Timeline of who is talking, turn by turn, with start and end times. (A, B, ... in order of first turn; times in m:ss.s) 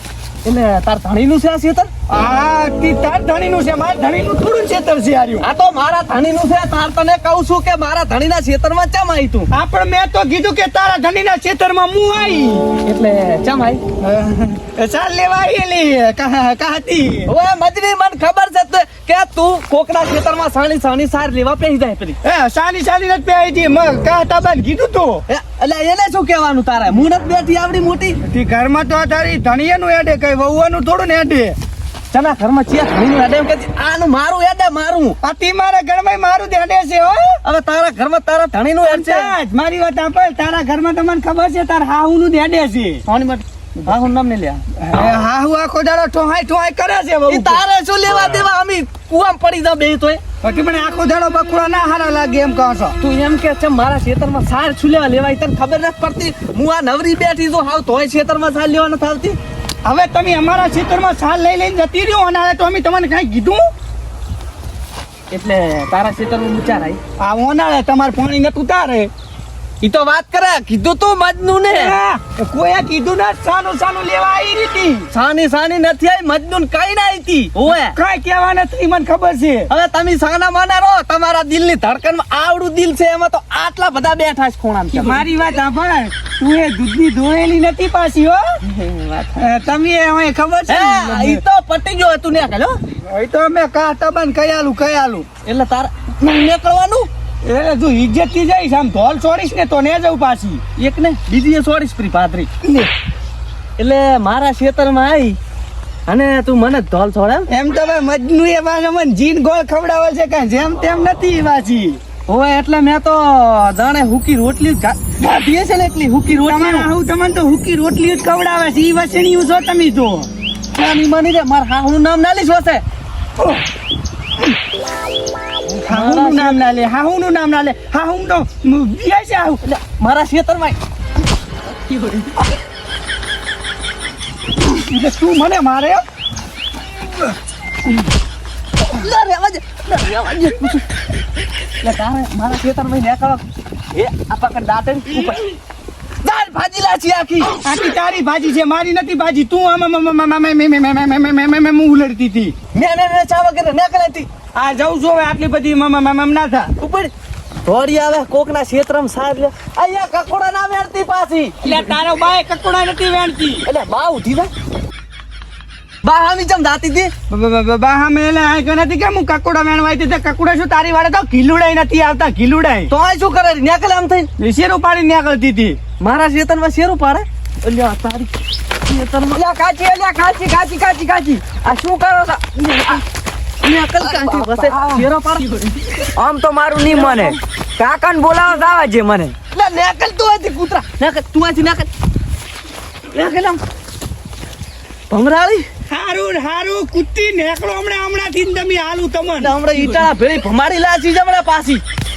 0:00.4-0:01.9 A
0:02.1-0:05.4 B
0:05.4-0:09.5 A
0:09.5-0:12.7 B
0:12.8-0:13.8 A
0:14.0-0:17.3 B
0:17.3-0:22.2 A
0:22.2-0:25.2 B
0:25.3-0:28.2 A
0:28.2-0:31.6 B
0:32.1-0:35.2 A
0:35.2-0:37.4 B
0:37.4-0:39.3 A
0:38.8-0:43.0 B
0:43.1-0:44.6 A
0:44.8-0:47.6 B
0:47.3-0:50.2 A
0:50.4-0:53.0 B
0:53.0-0:59.4 A
0:59.8-1:03.7 B
1:05.3-1:07.0 A
1:07.2-1:09.1 B
1:09.8-1:11.9 A
1:11.7-1:15.1 B
1:15.1-1:17.9 A
1:17.7-1:19.7 B
1:19.7-1:25.2 A
1:24.9-1:28.6 B
1:28.8-1:29.3 A
1:29.3-1:31.4 B
1:30.7-1:32.8 A
1:33.0-1:35.2 B
1:35.4-1:37.1 A
1:37.4-1:40.6 B
1:40.8-1:42.5 A
1:42.6-1:42.9 B
1:43.8-1:45.4 A
1:46.1-1:47.5 A
1:47.5-1:52.0 B
1:52.3-1:56.9 A
1:56.4-2:00.3 B
2:00.7-2:02.8 A
2:03.4-2:03.6 B
2:05.7-2:06.6 A
2:05.8-2:09.6 B
2:09.6-2:10.8 A
2:14.7-2:16.0 B
2:18.8-2:20.8 A
2:21.8-2:23.4 A
2:23.9-2:25.4 A
2:26.2-2:27.6 A
2:27.6-2:32.5 B
2:32.7-2:34.3 A
2:34.5-2:36.7 B
2:36.8-2:37.1 A
2:37.6-2:41.6 A
2:41.6-2:43.6 B
2:43.6-2:44.5 A
2:46.0-2:47.1 A
2:47.3-2:52.9 B
2:52.9-2:54.3 A
2:54.4-2:55.8 B
2:56.0-2:59.5 A
2:59.4-3:01.4 C
2:59.7-3:01.4 B
3:01.6-3:03.0 A
3:03.6-3:06.0 A
3:04.1-3:05.0 B
3:06.2-3:09.3 C
3:06.2-3:07.4 B
3:08.0-3:09.3 B
3:09.5-3:11.9 A
3:13.1-3:13.6 A
3:15.1-3:15.6 A
3:15.9-3:19.5 B
3:19.4-3:21.8 A